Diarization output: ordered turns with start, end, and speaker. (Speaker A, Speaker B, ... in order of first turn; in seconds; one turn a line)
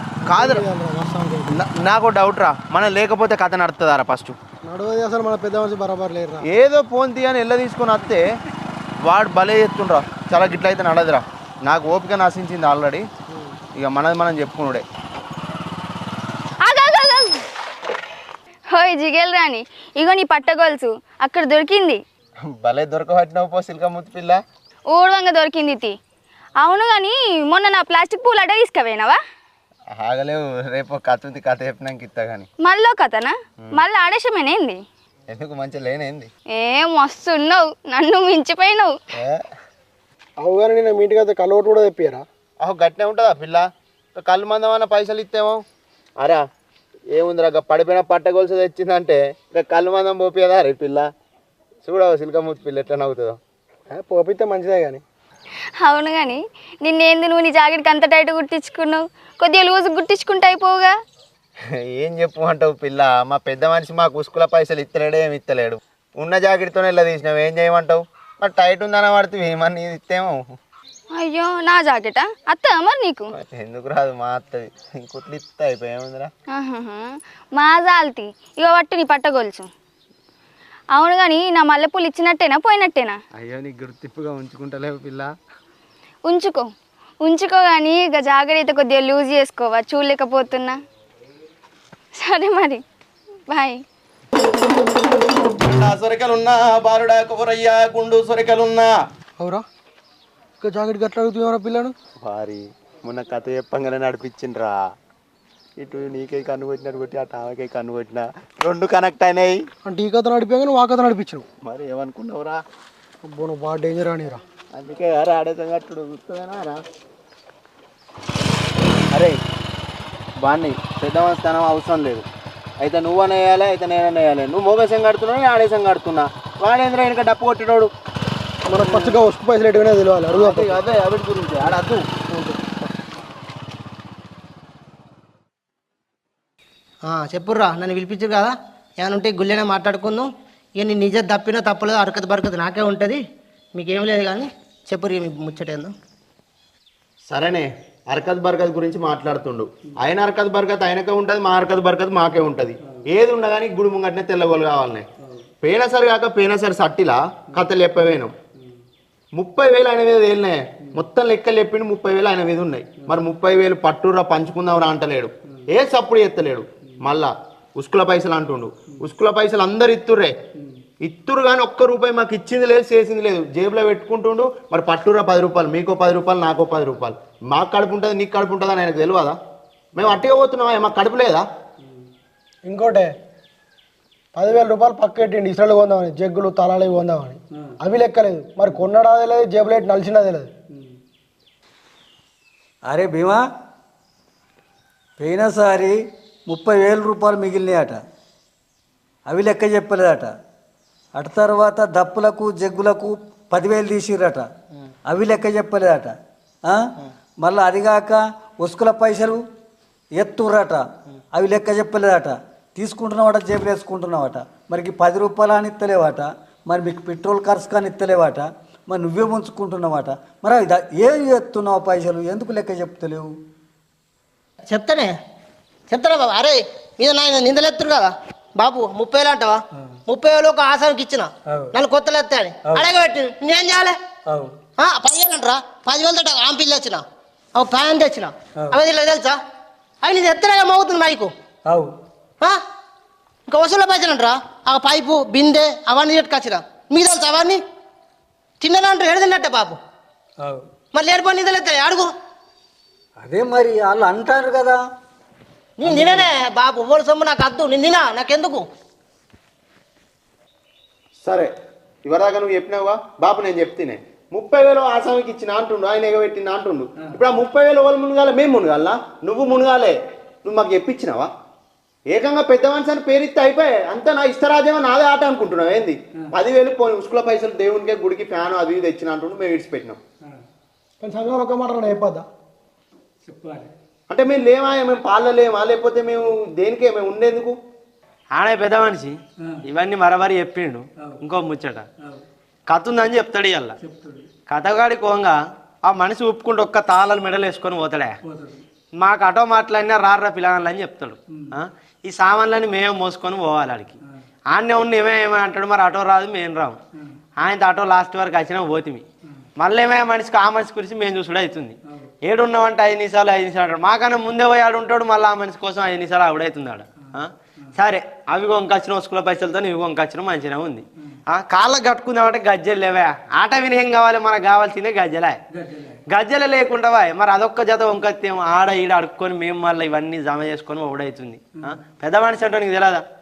Speaker A: 0.2-1.6
Speaker B: 0.3-0.7
Speaker B: 1.5-4.4
Speaker A: 4.6-6.5
Speaker B: 6.5-8.2
Speaker B: 9.1-13.1
Speaker B: 13.8-14.9
Speaker C: 16.6-17.3
Speaker C: 18.8-22.0
Speaker B: 22.5-24.4
Speaker C: 24.9-26.0
Speaker C: 26.6-29.2
Speaker B: 29.9-32.5
Speaker C: 32.6-34.8
Speaker B: 35.3-36.3
Speaker C: 36.5-38.9
Speaker A: 40.4-42.2
Speaker B: 42.6-43.6
Speaker B: 44.2-45.6
Speaker B: 47.1-51.1
Speaker B: 51.8-53.4
Speaker A: 53.9-55.0
Speaker C: 55.9-60.9
Speaker B: 61.9-70.4
Speaker C: 71.1-73.3
Speaker B: 73.3-76.3
Speaker C: 76.5-79.7
Speaker C: 81.0-83.2
Speaker B: 83.4-85.3
Speaker C: 86.3-86.7
Speaker C: 87.2-90.8
Speaker C: 92.2-92.8
Speaker C: 93.5-93.8
Speaker B: 95.5-99.0
Speaker A: 99.4-99.7
Speaker A: 100.6-101.9
Speaker B: 102.2-104.8
Speaker B: 105.8-109.6
Speaker A: 109.8-111.5
Speaker B: 111.6-112.6
Speaker A: 113.2-114.4
Speaker B: 114.8-116.8
Speaker B: 120.4-122.3
Speaker B: 122.8-127.9
Speaker A: 128.7-130.7
Speaker B: 128.8-129.2
Speaker B: 130.3-132.1
Speaker A: 132.3-132.9
Speaker D: 137.1-143.2
Speaker D: 143.8-145.9
Speaker B: 147.3-155.1
Speaker B: 155.6-158.3
Speaker B: 159.3-170.3
Speaker B: 171.0-179.4
Speaker B: 179.9-181.5
Speaker A: 182.7-183.1
Speaker A: 184.3-190.5
Speaker E: 192.9-193.4
Speaker E: 195.2-198.0
Speaker E: 199.3-200.3
Speaker E: 201.2-204.5
Speaker E: 205.1-206.1
Speaker E: 207.4-209.4
Speaker E: 210.2-210.8
Speaker E: 211.3-223.3
Speaker D: 224.7-225.1
Speaker D: 225.9-234.0
Speaker E: 231.5-231.8
Speaker E: 234.3-234.6
Speaker D: 234.8-237.0
Speaker D: 237.6-239.4
Speaker D: 240.0-241.3
Speaker E: 241.7-241.9
Speaker D: 243.5-247.6
Speaker D: 248.6-249.8
Speaker D: 250.9-252.1
Speaker E: 253.2-254.8
Speaker D: 255.8-258.7
Speaker E: 255.8-256.3
Speaker B: 261.2-261.5
Speaker B: 262.1-271.3
Speaker B: 272.1-280.0
Speaker A: 281.0-282.3
Speaker E: 283.3-283.7
Speaker B: 284.1-287.6
Speaker F: 288.3-291.9
Speaker F: 292.7-293.8
Speaker F: 294.5-298.2
Speaker F: 299.0-304.0
Speaker F: 304.5-306.8
Speaker F: 307.4-309.0
Speaker F: 309.6-325.4
Speaker F: 326.1-333.0